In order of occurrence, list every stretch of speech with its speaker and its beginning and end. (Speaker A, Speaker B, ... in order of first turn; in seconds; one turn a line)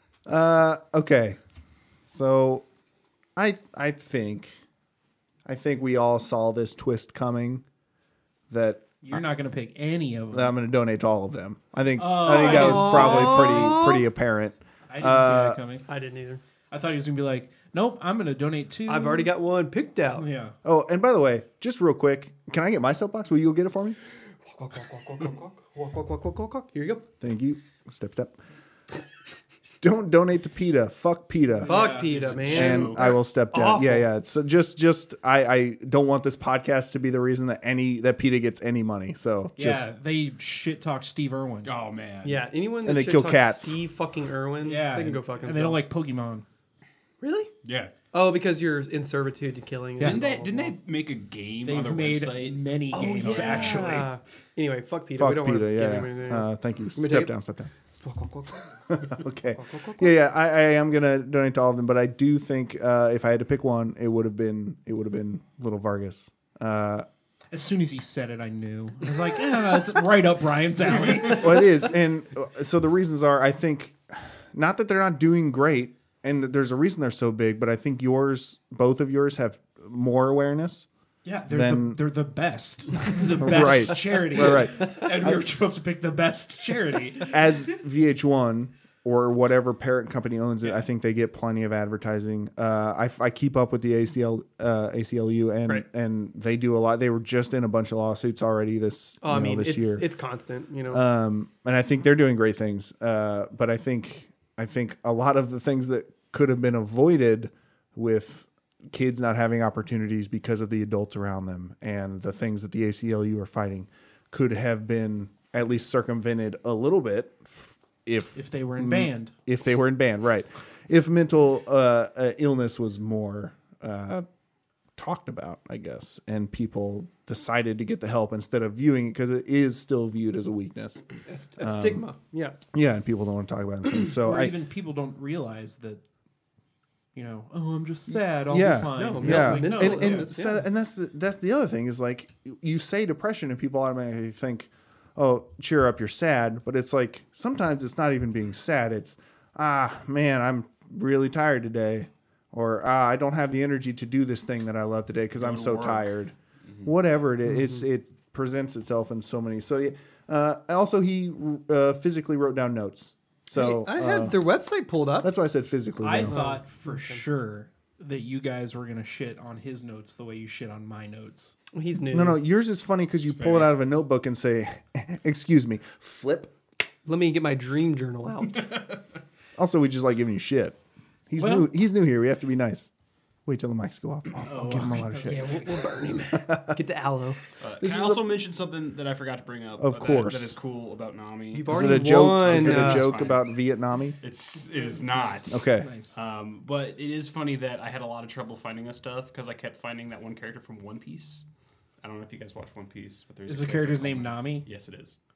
Speaker A: 0.3-1.4
Speaker A: 2.1-2.7
Speaker A: 3.4-4.6
Speaker A: 5.5-7.6
Speaker A: 8.5-9.2
Speaker B: 9.0-10.6
Speaker A: 10.3-15.6
Speaker B: 12.0-13.9
Speaker C: 12.4-13.9
Speaker B: 14.9-15.9
Speaker C: 15.9-16.4
Speaker B: 16.7-19.3
Speaker C: 18.9-20.3
Speaker B: 20.2-20.6
Speaker A: 20.6-24.0
Speaker C: 24.4-27.1
Speaker A: 27.2-28.4
Speaker A: 29.8-31.9
Speaker B: 31.6-32.8
Speaker C: 31.6-34.1
Speaker D: 32.2-33.2
Speaker A: 32.5-39.9
Speaker B: 39.6-41.7
Speaker D: 41.6-42.4
Speaker C: 42.2-45.8
Speaker A: 42.9-43.8
Speaker B: 44.6-46.5
Speaker C: 47.2-47.5
Speaker D: 47.6-47.9
Speaker C: 48.1-50.8
Speaker D: 50.0-54.0
Speaker B: 51.7-54.1
Speaker C: 52.9-57.3
Speaker A: 55.2-57.7
Speaker C: 57.9-60.1
Speaker A: 58.9-67.1
Speaker B: 67.5-71.7
Speaker A: 71.3-80.9
Speaker B: 81.2-87.5
Speaker A: 81.5-82.0
Speaker A: 83.2-85.4
Speaker A: 87.3-100.0
Speaker C: 99.2-101.0
Speaker A: 100.9-124.3
Speaker B: 118.3-119.3
Speaker A: 125.0-131.0
Speaker C: 131.3-132.6
Speaker A: 131.6-132.0
Speaker A: 132.7-134.5
Speaker B: 134.2-136.0
Speaker B: 137.1-140.4
Speaker A: 138.1-164.4
Speaker C: 138.9-140.6
Speaker D: 155.4-156.1
Speaker C: 163.5-165.3
Speaker A: 165.2-166.4
Speaker B: 166.0-171.6
Speaker C: 166.2-167.2
Speaker C: 171.7-172.4
Speaker A: 172.1-176.6
Speaker D: 173.3-173.8
Speaker C: 177.1-178.8
Speaker A: 179.6-180.8
Speaker A: 181.3-182.9
Speaker B: 181.4-181.7
Speaker A: 183.5-186.8
Speaker B: 184.4-185.7
Speaker C: 185.2-187.4
Speaker D: 187.6-193.4
Speaker A: 187.8-188.2
Speaker A: 189.8-190.6
Speaker C: 191.5-193.1
Speaker A: 191.7-194.2
Speaker D: 194.2-201.5
Speaker B: 195.4-196.2
Speaker A: 195.5-195.9
Speaker D: 202.0-205.2
Speaker B: 203.5-204.7